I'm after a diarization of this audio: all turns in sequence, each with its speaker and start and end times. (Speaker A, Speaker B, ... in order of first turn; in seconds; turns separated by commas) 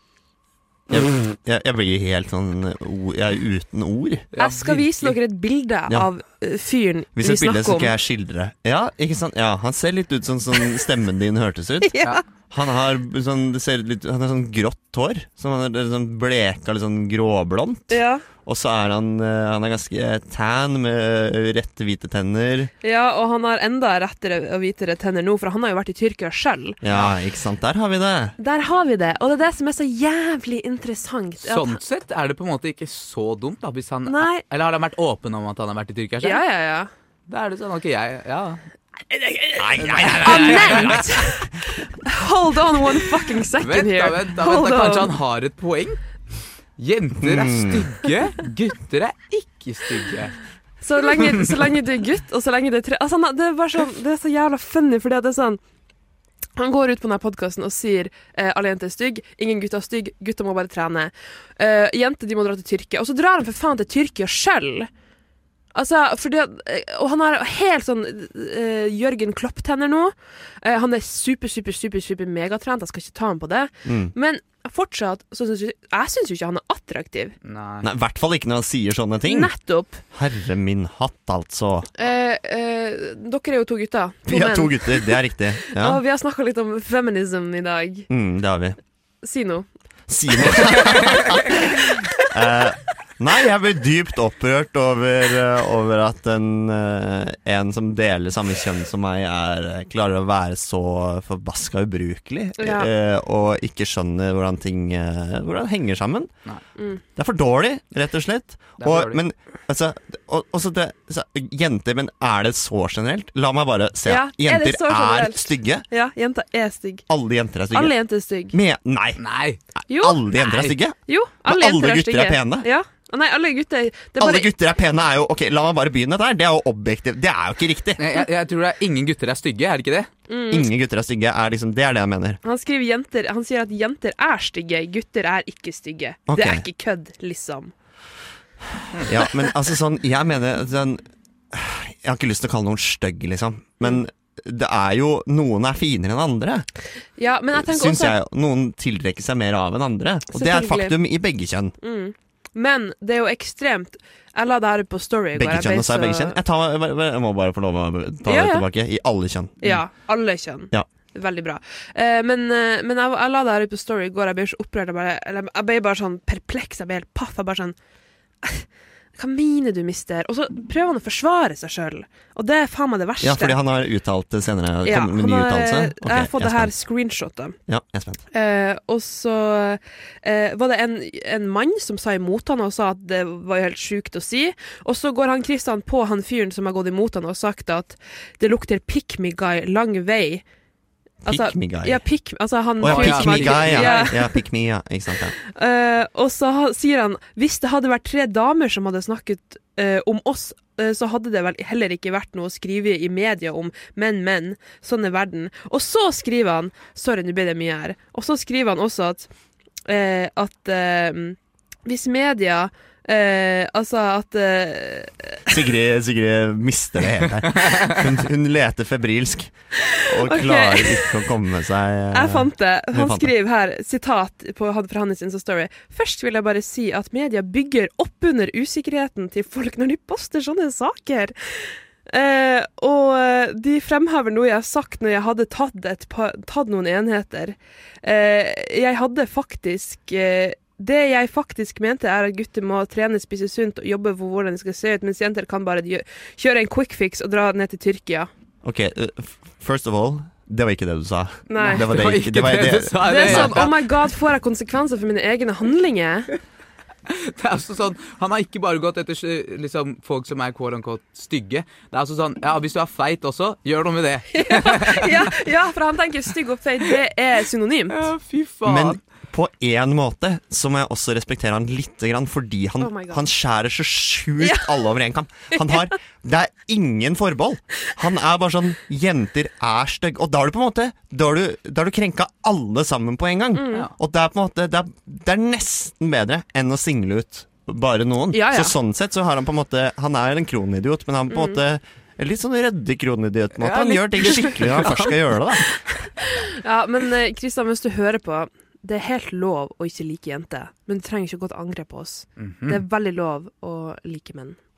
Speaker A: 0.9-4.3, Speaker B: 4.3-5.2, Speaker C: 4.4-7.9, Speaker A: 7.2-12.0, Speaker C: 11.8-12.2, Speaker A: 12.5-22.7, Speaker C: 17.9-18.2, Speaker C: 22.8-26.8, Speaker A: 26.8-28.4, Speaker C: 28.4-31.8, Speaker B: 31.4-36.4, Speaker C: 34.1-34.4, Speaker C: 36.2-36.9, Speaker B: 37.3-41.0, Speaker A: 39.6-41.1, Speaker C: 40.2-45.1, Speaker B: 43.6-46.0, Speaker B: 46.8-50.4, Speaker A: 47.2-47.9, Speaker C: 50.8-55.6, Speaker C: 56.6-64.9, Speaker C: 65.8-77.3, Speaker A: 73.9-74.1, Speaker B: 77.5-77.9, Speaker A: 77.8-79.5, Speaker C: 79.3-80.0, Speaker A: 80.1-81.9, Speaker C: 82.0-85.2, Speaker A: 84.3-86.0, Speaker C: 85.7-88.1, Speaker A: 88.1-88.8, Speaker C: 89.2-89.7, Speaker A: 90.1-106.3, Speaker C: 102.6-102.9, Speaker A: 107.2-115.9, Speaker B: 108.8-109.2, Speaker C: 114.1-117.0, Speaker A: 117.1-118.0, Speaker C: 117.7-118.6, Speaker A: 118.5-119.2, Speaker B: 119.2-119.6, Speaker A: 119.8-122.7, Speaker C: 119.9-120.3, Speaker B: 120.4-120.7, Speaker C: 121.1-124.5, Speaker A: 124.2-128.0, Speaker B: 128.0-130.1, Speaker C: 130.3-130.7, Speaker A: 130.5-132.4, Speaker C: 132.4-137.7, Speaker A: 136.3-136.7, Speaker A: 139.0-146.7, Speaker C: 147.2-148.2, Speaker A: 147.5-151.8, Speaker C: 150.3-150.9, Speaker C: 151.8-156.4, Speaker A: 155.3-159.8, Speaker C: 158.3-158.7, Speaker C: 159.6-167.8, Speaker C: 168.4-173.6, Speaker A: 173.2-176.7, Speaker C: 174.8-177.6, Speaker A: 177.7-178.2, Speaker C: 178.3-190.4, Speaker A: 191.2-192.0, Speaker C: 191.2-194.4, Speaker A: 192.8-195.3, Speaker B: 192.8-194.1, Speaker C: 195.4-209.3, Speaker C: 209.9-215.5, Speaker A: 215.5-223.3, Speaker C: 220.2-221.3, Speaker C: 222.1-248.3, Speaker A: 248.6-253.8, Speaker C: 251.5-251.9, Speaker B: 251.6-253.8, Speaker C: 253.1-256.3, Speaker B: 257.1-265.3, Speaker C: 264.3-268.1, Speaker B: 267.9-269.0, Speaker A: 268.6-295.7, Speaker C: 272.8-273.2, Speaker C: 274.4-274.8, Speaker C: 275.5-275.9, Speaker C: 283.6-283.9, Speaker C: 288.3-288.8, Speaker C: 291.3-291.6, Speaker B: 293.6-295.2, Speaker C: 296.4-304.6, Speaker B: 302.4-302.8